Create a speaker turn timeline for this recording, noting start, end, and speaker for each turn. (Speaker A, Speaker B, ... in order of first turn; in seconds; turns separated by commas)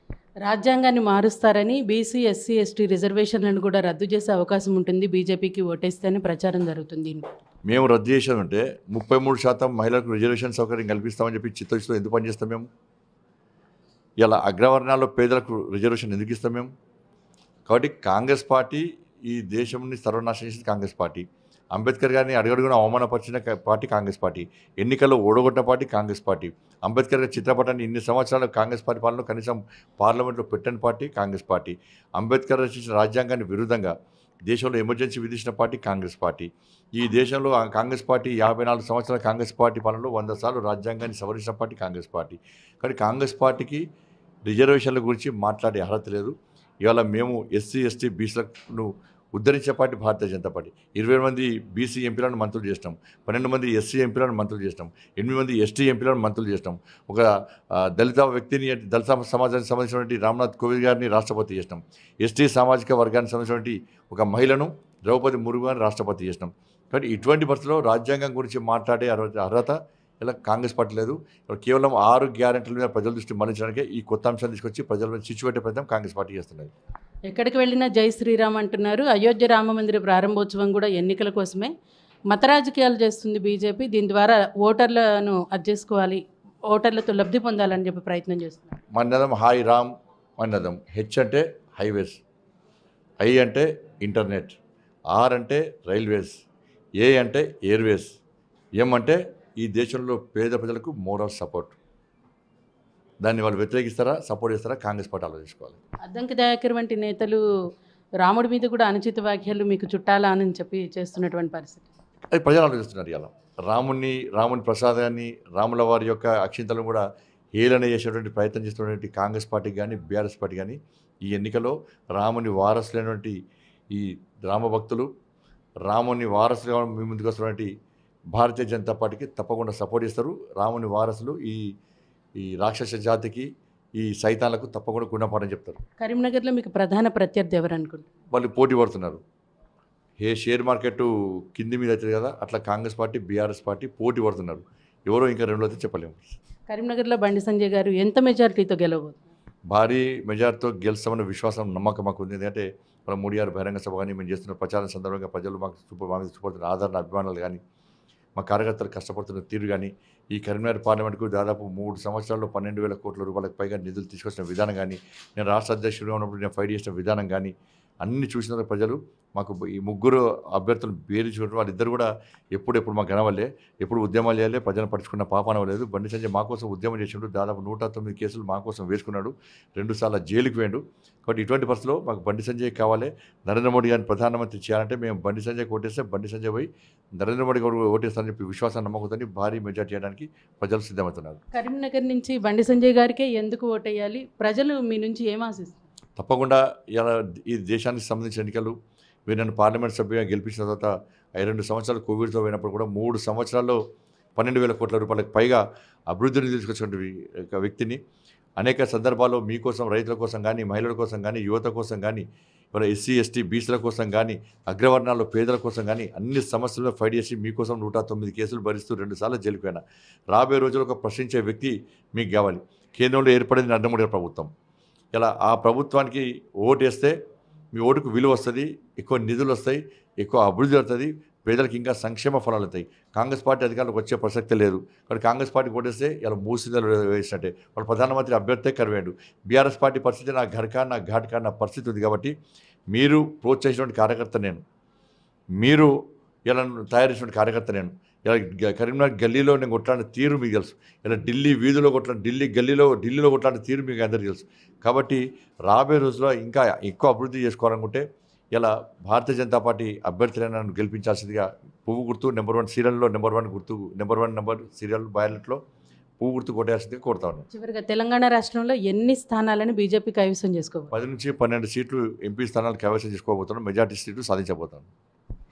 Speaker A: 0.4-7.2, Speaker B: 7.7-12.7, Speaker B: 14.2-16.7, Speaker B: 17.7-33.9, Speaker B: 34.5-43.8, Speaker B: 44.5-76.7, Speaker A: 77.3-81.7, Speaker A: 82.3-88.8, Speaker B: 88.9-92.2, Speaker B: 93.2-94.6, Speaker B: 95.1-96.3, Speaker B: 97.0-98.1, Speaker B: 98.8-101.8, Speaker B: 103.2-105.8, Speaker A: 106.1-107.4, Speaker A: 108.2-111.9, Speaker B: 112.3-123.4, Speaker B: 123.9-125.1, Speaker B: 125.8-127.7, Speaker B: 128.3-131.6, Speaker B: 132.4-135.8, Speaker A: 136.0-138.1, Speaker B: 138.3-139.2, Speaker B: 140.2-146.4, Speaker A: 146.7-149.3, Speaker B: 149.7-157.6, Speaker B: 158.4-191.4, Speaker A: 191.5-195.8, Speaker B: 196.2-198.7, Speaker B: 199.3-203.8, Speaker B: 204.4-208.0, Speaker B: 208.6-224.5, Speaker B: 225.1-227.2, Speaker B: 227.7-242.3, Speaker B: 242.9-244.6, Speaker B: 245.6-245.9, Speaker B: 246.5-265.6, Speaker B: 266.2-267.5, Speaker A: 267.5-270.9, Speaker B: 270.9-274.9